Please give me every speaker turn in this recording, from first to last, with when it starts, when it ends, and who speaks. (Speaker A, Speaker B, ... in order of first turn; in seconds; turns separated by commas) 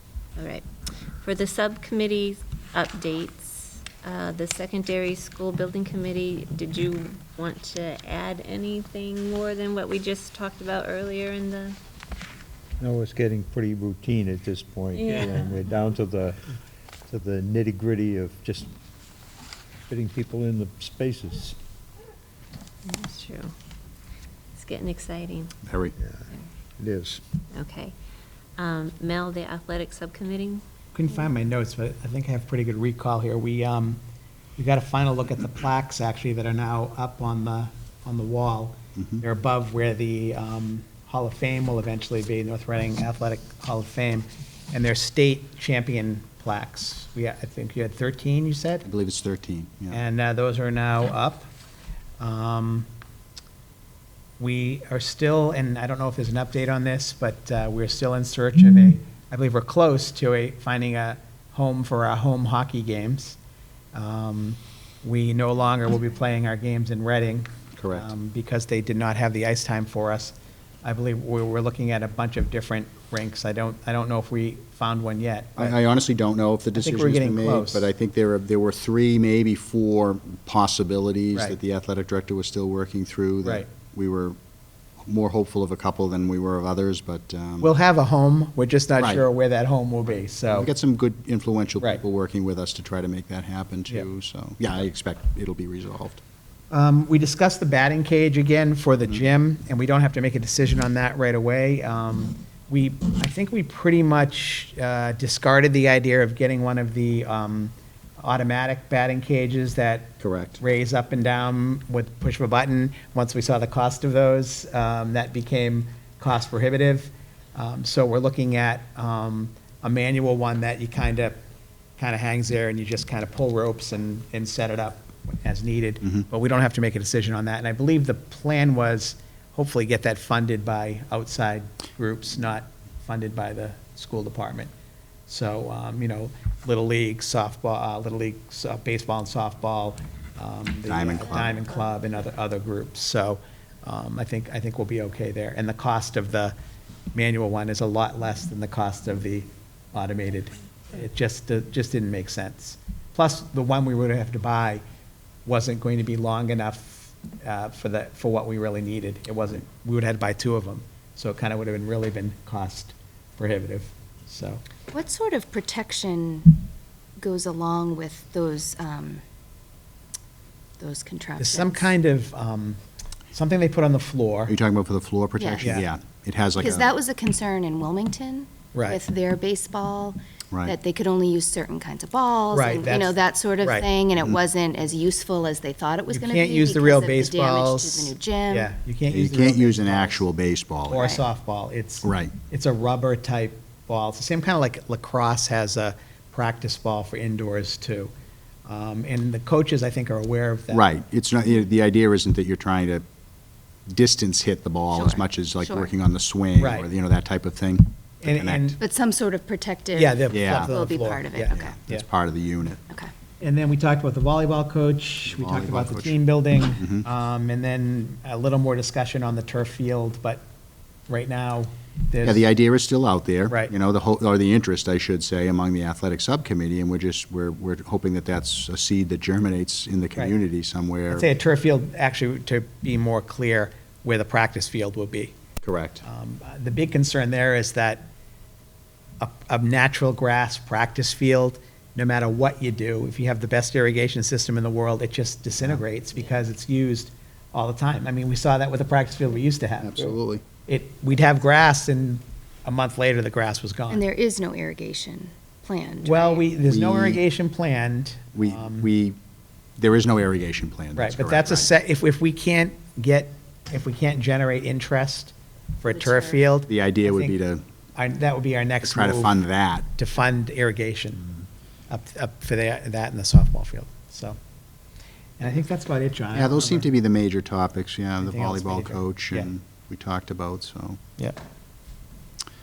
Speaker A: 0.3-0.6, Speaker A: 1.2-11.8, Speaker B: 12.8-16.4, Speaker A: 14.9-15.5, Speaker B: 17.1-18.7, Speaker B: 19.9-21.6, Speaker A: 22.9-23.5, Speaker A: 24.6-25.5, Speaker C: 25.6-25.9, Speaker B: 26.8-27.2, Speaker A: 27.5-27.9, Speaker A: 28.6-30.6, Speaker D: 30.9-34.0, Speaker D: 34.6-48.9, Speaker C: 39.0-39.2, Speaker C: 48.8-50.0, Speaker D: 49.9-51.5, Speaker D: 52.2-52.9, Speaker D: 54.4-63.4, Speaker D: 63.9-75.8, Speaker C: 67.8-68.1, Speaker C: 75.6-84.4, Speaker D: 76.7-77.9, Speaker C: 85.0-87.7, Speaker D: 87.6-90.7, Speaker C: 89.0-89.2, Speaker C: 90.5-96.2, Speaker D: 96.7-121.4, Speaker C: 110.2-110.6, Speaker D: 122.0-134.7, Speaker D: 135.3-146.5, Speaker C: 140.8-141.6, Speaker D: 147.1-154.8, Speaker D: 155.4-164.6, Speaker E: 164.9-166.6, Speaker E: 167.2-169.2, Speaker E: 170.8-171.9, Speaker D: 171.4-172.8, Speaker D: 173.3-174.5, Speaker C: 174.5-176.9, Speaker E: 175.4-175.8, Speaker D: 175.6-175.8, Speaker E: 176.6-188.7, Speaker D: 178.7-179.0, Speaker D: 182.5-183.9, Speaker D: 186.1-190.2, Speaker C: 189.1-191.1, Speaker D: 190.9-198.1, Speaker E: 190.9-191.2, Speaker C: 192.0-192.3, Speaker D: 198.7-200.8, Speaker C: 200.7-203.0, Speaker C: 203.9-208.8, Speaker E: 204.9-205.9, Speaker D: 206.6-206.9, Speaker D: 208.2-208.8, Speaker E: 208.8-211.8, Speaker D: 209.9-212.1, Speaker C: 210.3-210.7, Speaker C: 211.5-212.8, Speaker D: 213.4-220.4, Speaker C: 215.2-216.2, Speaker C: 216.8-217.1, Speaker D: 221.1-222.4, Speaker C: 222.2-231.3, Speaker D: 231.1-235.3, Speaker C: 235.6-236.0, Speaker D: 236.0-238.1, Speaker D: 239.2-254.0, Speaker C: 249.8-250.4, Speaker E: 253.9-256.5, Speaker D: 256.0-258.9, Speaker C: 256.7-257.2, Speaker C: 258.3-259.2, Speaker C: 259.8-261.7, Speaker D: 260.9-267.3, Speaker E: 265.9-266.4, Speaker C: 266.7-267.6, Speaker D: 267.9-269.3, Speaker C: 268.8-269.9, Speaker D: 269.9-271.3, Speaker D: 271.9-274.4, Speaker D: 275.4-276.9, Speaker C: 276.3-281.0, Speaker D: 278.2-279.5